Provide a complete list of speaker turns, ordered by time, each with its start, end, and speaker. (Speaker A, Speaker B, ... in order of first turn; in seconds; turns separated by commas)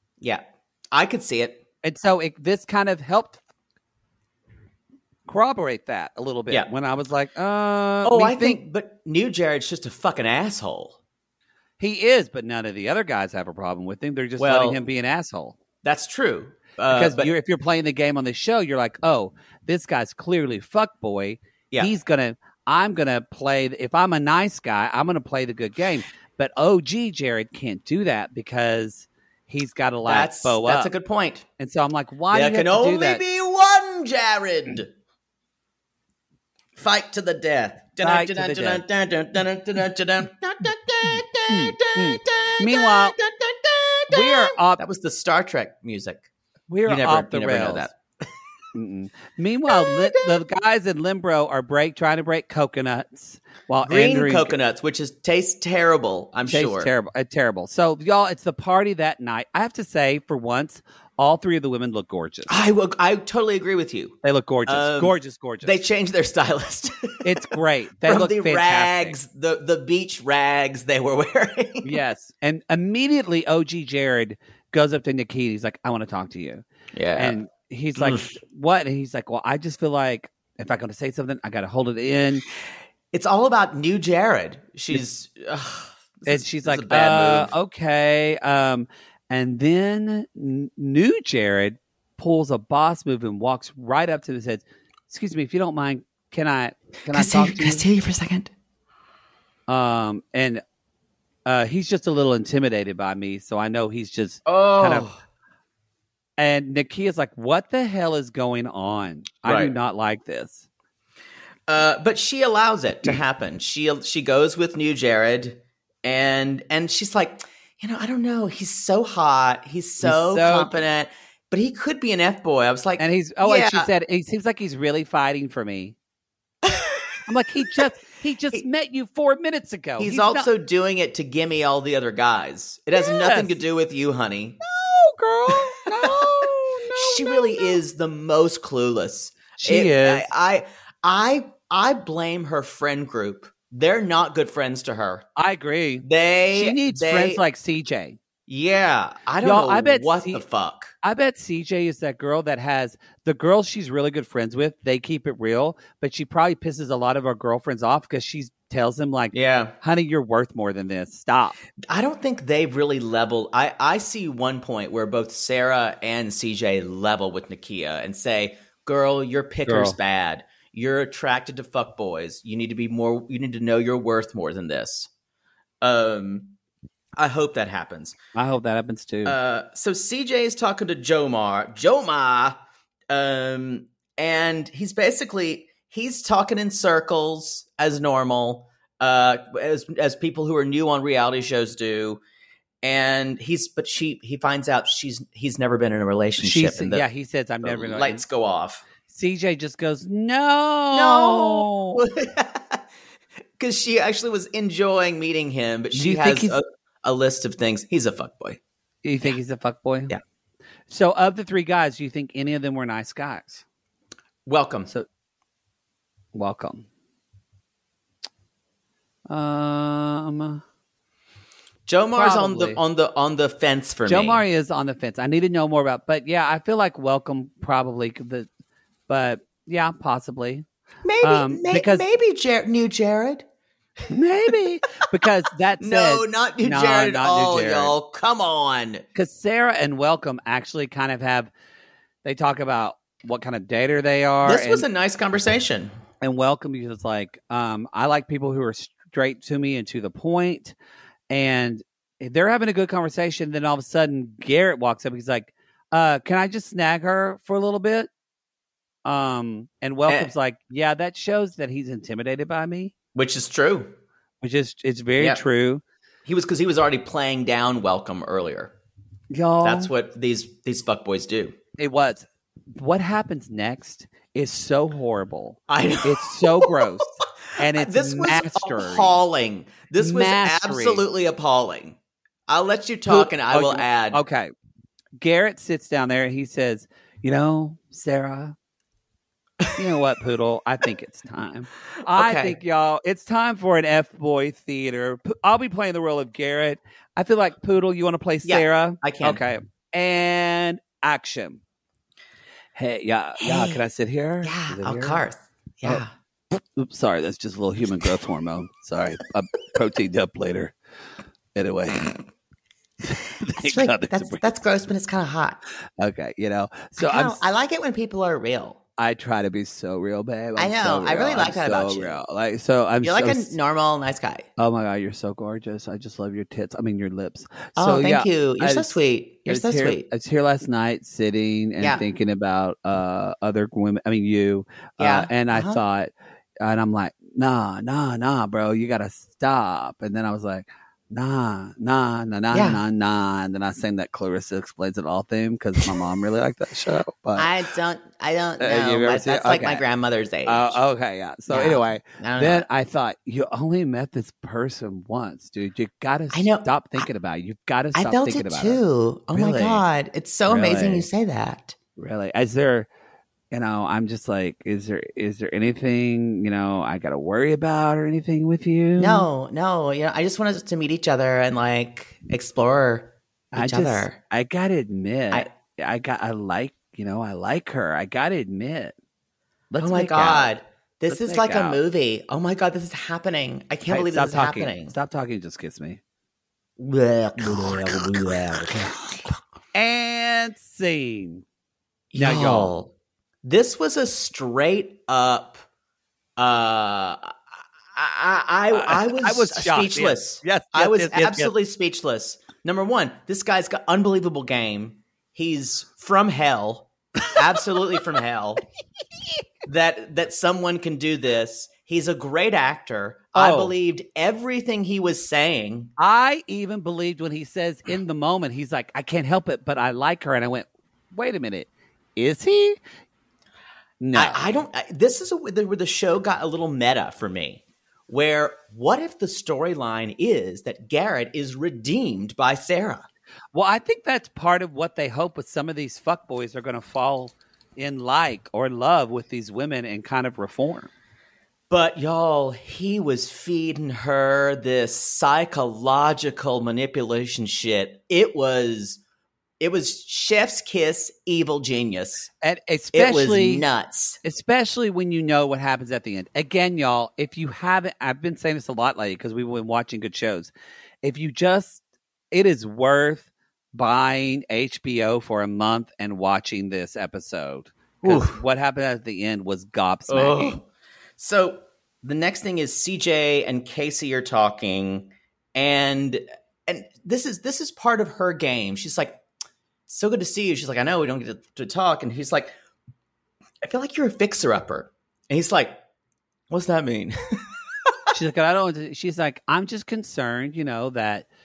Speaker A: 0.2-1.6, Speaker B: 1.8-3.4, Speaker B: 5.3-8.6, Speaker A: 8.0-11.0, Speaker B: 11.8-15.6, Speaker A: 14.4-14.8, Speaker A: 15.8-17.3, Speaker B: 16.9-30.9, Speaker A: 30.1-31.4, Speaker B: 31.6-33.2, Speaker A: 32.3-34.9, Speaker A: 36.8-46.3, Speaker B: 38.0-38.9, Speaker B: 41.5-43.2, Speaker B: 44.1-44.8, Speaker B: 46.7-47.9, Speaker A: 46.9-48.0, Speaker B: 48.7-54.6, Speaker A: 49.7-50.4, Speaker A: 53.8-56.9, Speaker B: 56.5-62.5, Speaker A: 62.5-72.0, Speaker B: 64.2-65.8, Speaker B: 67.2-69.2, Speaker B: 71.8-76.7, Speaker A: 76.9-77.4, Speaker B: 77.2-82.5, Speaker A: 78.0-78.3, Speaker A: 83.1-87.5, Speaker B: 86.3-97.9, Speaker A: 97.1-98.5, Speaker B: 99.7-100.6, Speaker B: 101.5-105.1, Speaker A: 104.5-105.2, Speaker B: 106.4-110.7, Speaker A: 109.5-109.7, Speaker A: 111.7-123.9, Speaker B: 120.0-120.8, Speaker B: 123.0-126.0, Speaker A: 126.7-127.0, Speaker B: 127.3-130.5, Speaker A: 130.0-134.6, Speaker B: 132.9-133.6, Speaker B: 134.6-137.8, Speaker A: 135.5-136.3, Speaker A: 136.9-145.3, Speaker B: 139.6-140.3, Speaker B: 145.4-148.2, Speaker A: 146.0-147.4, Speaker A: 148.5-150.9, Speaker B: 149.4-150.4, Speaker B: 151.0-161.6, Speaker A: 159.3-159.8, Speaker A: 161.9-175.1, Speaker B: 169.7-170.0, Speaker A: 175.8-176.6, Speaker A: 177.2-178.2, Speaker B: 178.3-179.4, Speaker A: 179.2-182.6, Speaker A: 183.1-192.2, Speaker A: 192.8-197.1, Speaker B: 196.4-198.2, Speaker A: 197.6-198.8, Speaker B: 199.1-202.0, Speaker A: 200.9-202.8, Speaker A: 203.6-208.6, Speaker B: 205.9-206.6, Speaker B: 209.0-210.1, Speaker B: 210.9-213.6, Speaker A: 214.5-214.9, Speaker B: 216.3-216.9, Speaker B: 219.3-220.6, Speaker A: 221.9-224.4, Speaker B: 222.2-222.8, Speaker B: 224.1-228.5, Speaker B: 229.1-230.7, Speaker A: 231.0-233.4, Speaker B: 231.2-232.1, Speaker B: 234.1-238.0, Speaker A: 235.8-239.0, Speaker B: 239.2-241.5, Speaker B: 242.2-244.9, Speaker A: 244.4-245.9, Speaker B: 246.2-250.8, Speaker B: 251.3-258.1, Speaker B: 259.1-262.9, Speaker A: 263.1-263.9, Speaker B: 264.4-265.8, Speaker A: 266.2-268.7, Speaker B: 269.3-269.9, Speaker A: 269.6-271.6, Speaker B: 271.8-279.2, Speaker A: 275.7-276.9, Speaker A: 277.5-282.0, Speaker B: 280.0-281.1, Speaker A: 282.5-284.2, Speaker B: 283.1-284.5, Speaker B: 285.2-288.6, Speaker B: 289.8-301.6, Speaker A: 292.1-292.6, Speaker A: 298.4-299.4, Speaker B: 302.8-305.2, Speaker A: 303.4-303.8, Speaker A: 304.4-306.1, Speaker B: 305.8-310.8, Speaker B: 311.6-312.2, Speaker B: 313.1-314.5, Speaker A: 313.5-315.6, Speaker B: 316.0-317.4, Speaker A: 317.0-318.8, Speaker B: 319.0-323.6, Speaker A: 320.6-322.2, Speaker A: 323.0-324.5, Speaker B: 324.6-347.5, Speaker A: 327.8-330.1, Speaker A: 331.8-332.1, Speaker A: 335.0-335.8, Speaker A: 342.5-342.8, Speaker A: 347.4-350.8, Speaker B: 348.6-349.8, Speaker B: 350.4-358.8, Speaker A: 351.5-352.7, Speaker A: 356.3-357.1, Speaker A: 357.9-361.8, Speaker B: 359.3-359.9, Speaker B: 360.5-361.1, Speaker B: 362.0-362.9, Speaker B: 363.5-369.3, Speaker A: 369.0-374.2, Speaker B: 373.5-378.9, Speaker B: 379.7-380.5, Speaker A: 379.8-384.9, Speaker B: 381.1-381.8, Speaker B: 383.9-386.0, Speaker A: 386.8-388.9, Speaker B: 387.4-388.9, Speaker B: 389.7-391.4, Speaker A: 392.1-392.9, Speaker B: 392.1-392.7, Speaker A: 393.4-395.6, Speaker A: 396.4-397.4, Speaker A: 397.9-408.6, Speaker B: 398.7-401.5, Speaker A: 409.7-415.9, Speaker B: 413.4-413.8, Speaker B: 416.0-422.8, Speaker B: 424.0-424.6, Speaker A: 424.1-433.1, Speaker B: 433.5-440.9, Speaker A: 441.7-449.0, Speaker A: 449.6-452.3, Speaker B: 452.4-453.7, Speaker A: 452.9-454.2, Speaker B: 454.2-470.6, Speaker A: 468.0-468.4, Speaker A: 470.1-470.7, Speaker A: 471.2-479.2, Speaker A: 479.9-482.5, Speaker A: 483.6-485.8, Speaker A: 486.5-487.2, Speaker B: 488.1-491.3